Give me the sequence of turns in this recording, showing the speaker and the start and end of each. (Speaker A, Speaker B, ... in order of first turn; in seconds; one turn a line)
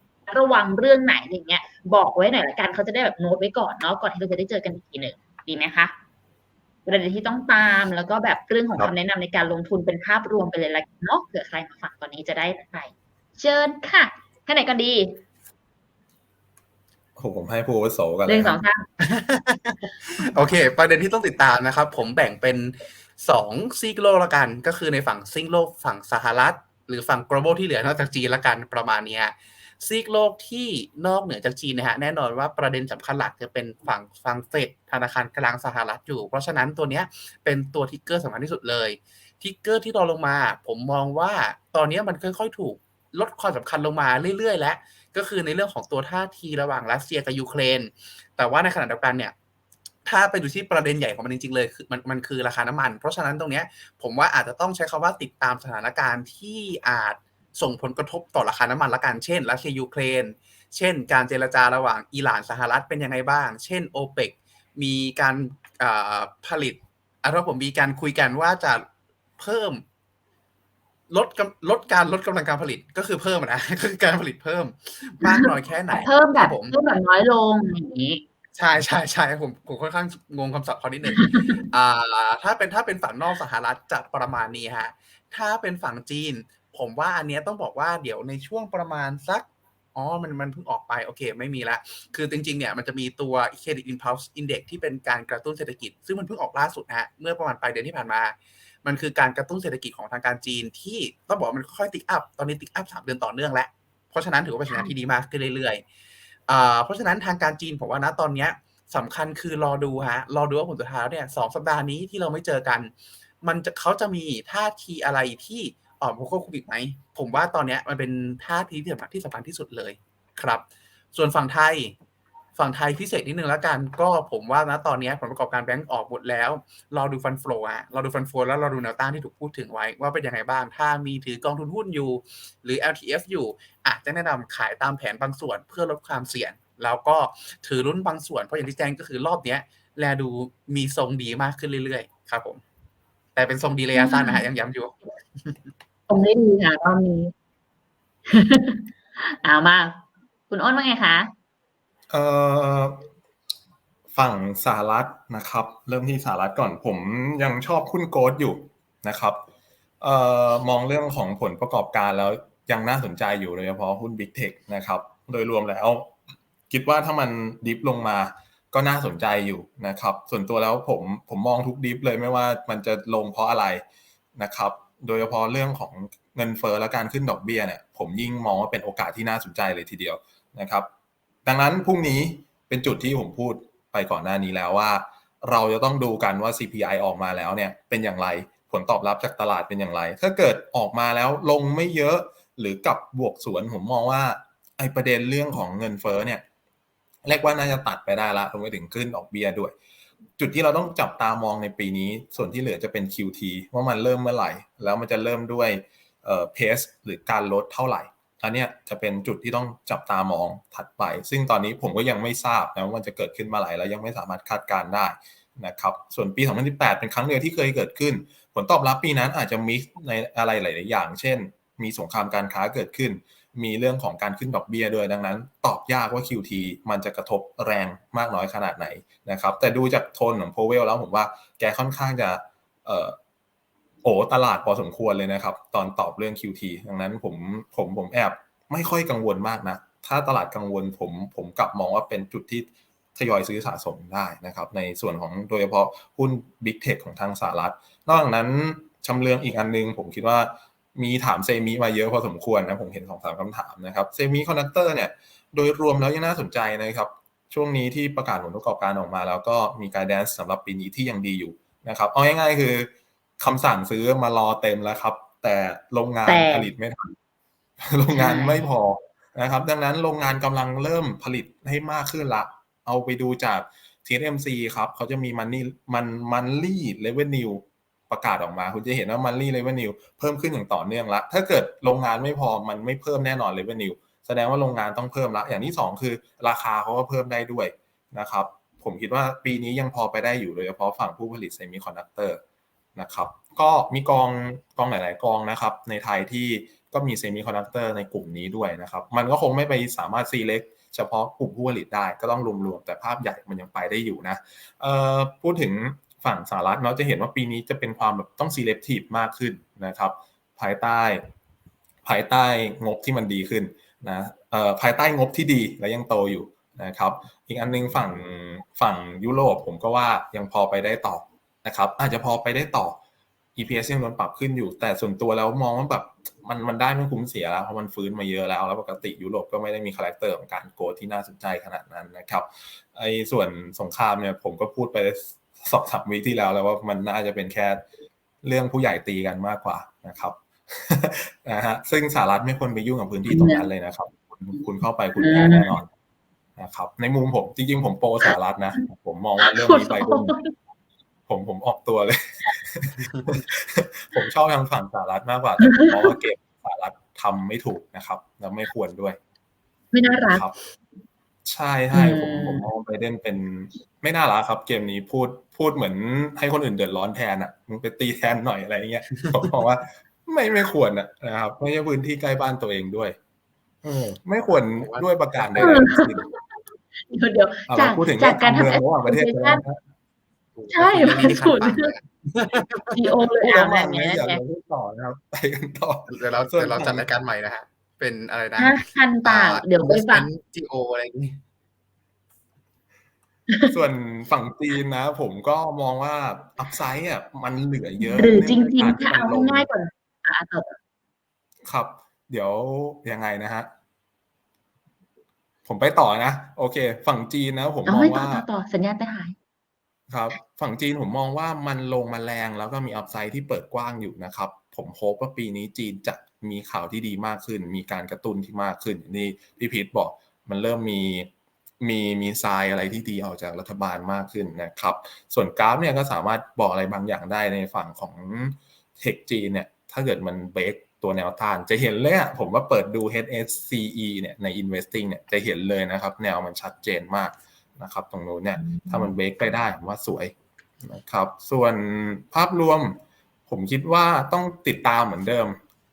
Speaker A: 0.3-5.9
Speaker A: 6.9-15.2
Speaker B: 17.2-18.6
Speaker A: 18.3-18.9
Speaker C: 19.0-49.4
Speaker C: 50.0-68.9
Speaker C: 69.4-69.8
Speaker C: 71.1-76.8
Speaker A: 75.3-78.2
Speaker C: 78.5-105.8
Speaker A: 81.1-81.6
Speaker C: 106.5-122.0
Speaker C: 122.6-142.6
Speaker C: 143.3-145.7
Speaker A: 143.9-144.5
Speaker A: 146.1-147.3
Speaker A: 148.3-151.3
Speaker B: 152.1-153.1
Speaker B: 154.1-159.4
Speaker B: 160.0-166.1
Speaker B: 166.7-173.8
Speaker B: 174.3-180.9
Speaker B: 181.5-196.4
Speaker B: 197.2-199.8
Speaker B: 200.4-233.2
Speaker B: 234.0-267.1
Speaker A: 266.3-266.7
Speaker B: 267.8-292.4
Speaker A: 268.1-268.7
Speaker B: 293.0-311.3
Speaker B: 312.1-323.0
Speaker B: 323.6-337.9
Speaker B: 338.4-345.9
Speaker A: 343.3-343.6
Speaker A: 345.2-345.8
Speaker B: 346.6-350.4
Speaker A: 349.4-350.5
Speaker B: 351.3-359.2
Speaker A: 355.6-355.9
Speaker A: 359.9-360.4
Speaker B: 360.3-360.6
Speaker B: 361.4-373.2
Speaker A: 361.9-362.7
Speaker B: 373.8-376.3
Speaker C: 374.8-375.0
Speaker A: 375.6-376.4
Speaker A: 377.1-379.6
Speaker B: 377.7-379.8
Speaker C: 380.6-383.0
Speaker A: 380.7-381.9
Speaker A: 382.9-384.4
Speaker B: 383.4-387.1
Speaker C: 386.1-391.4
Speaker A: 388.6-390.3
Speaker A: 393.5-393.8
Speaker B: 393.7-399.7
Speaker A: 398.1-400.8
Speaker B: 401.6-403.7
Speaker B: 405.6-408.4
Speaker A: 407.9-409.4
Speaker B: 410.1-421.3
Speaker B: 421.8-445.6